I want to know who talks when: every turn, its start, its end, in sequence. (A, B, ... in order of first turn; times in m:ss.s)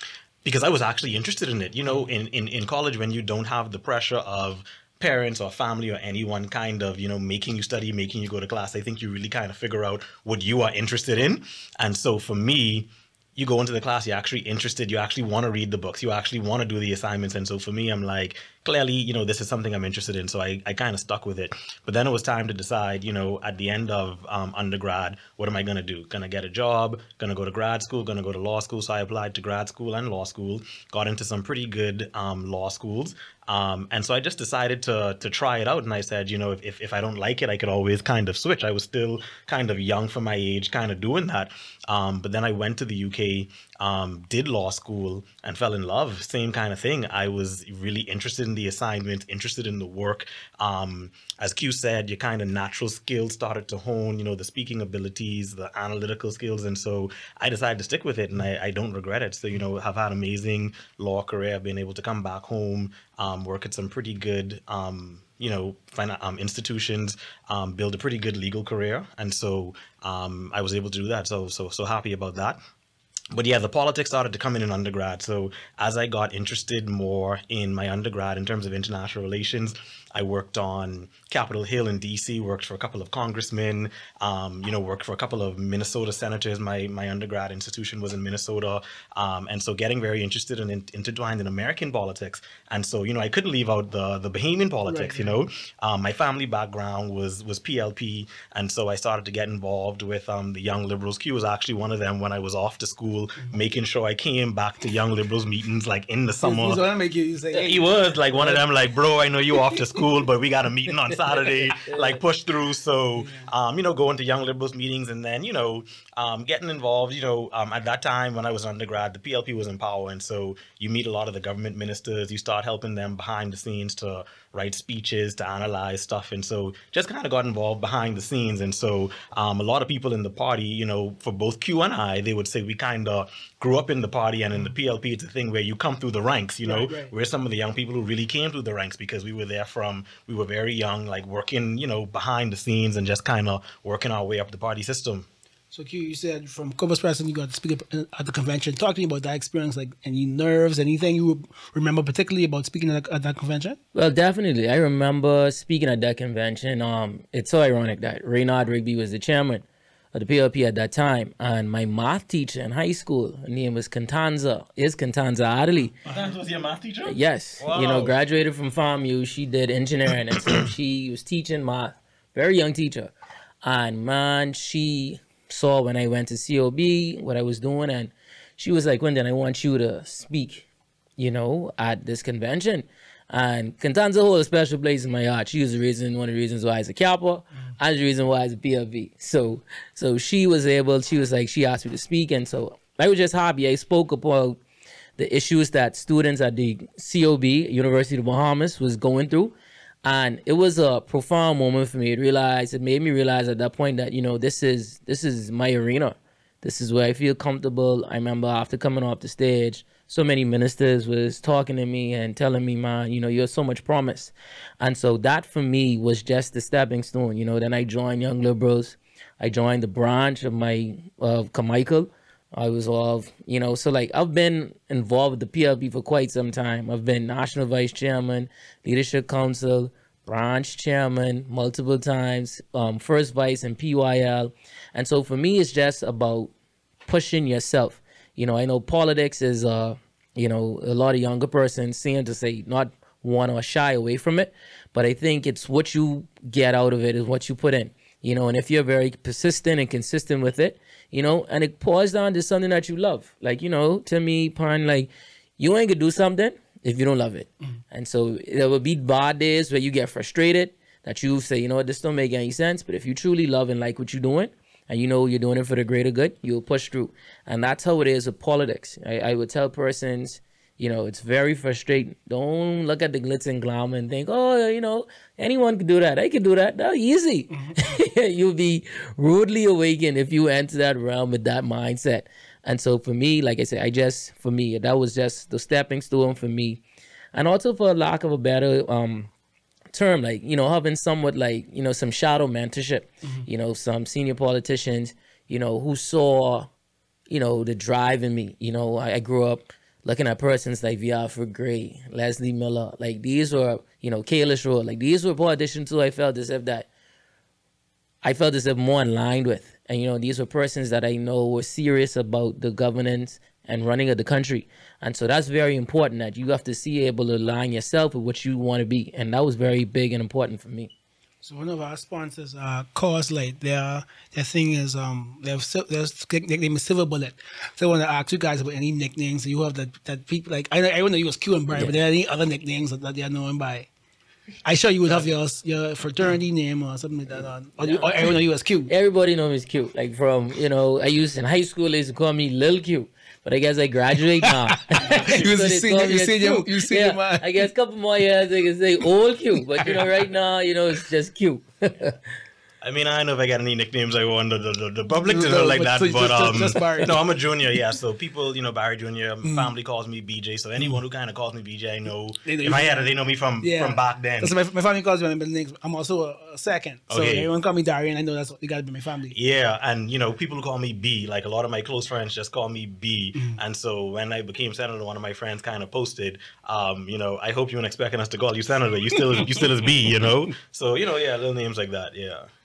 0:00.4-1:12.6 A
1:13.3-1:46.8 A
1:34.9-1:35.4 B
1:46.4-1:48.6 B
1:47.5-2:25.3 A
1:49.8-1:50.0 B
1:51.8-1:52.1 C
1:53.2-1:53.5 B
2:16.6-2:17.1 B
2:25.7-2:33.8 B
2:34.0-2:46.0 C
2:46.1-2:48.2 A
2:47.1-3:00.7 C
3:01.2-3:14.6 C
3:15.2-3:56.5 C
3:57.1-4:46.8 C
4:37.5-4:37.9 B
4:47.3-4:49.3 C
4:49.9-4:56.7 C
4:57.3-5:06.9 C
5:08.2-5:20.9 C
5:21.4-5:33.9 B
5:34.6-5:38.9 B
5:37.8-5:38.3 C
5:38.9-5:52.2 C
5:44.4-5:47.7 B
5:52.8-6:04.6 A
5:55.2-5:57.2 B
5:59.4-5:59.7 B
6:02.4-6:09.4 B
6:07.1-6:07.5 A
6:09.3-6:22.5 A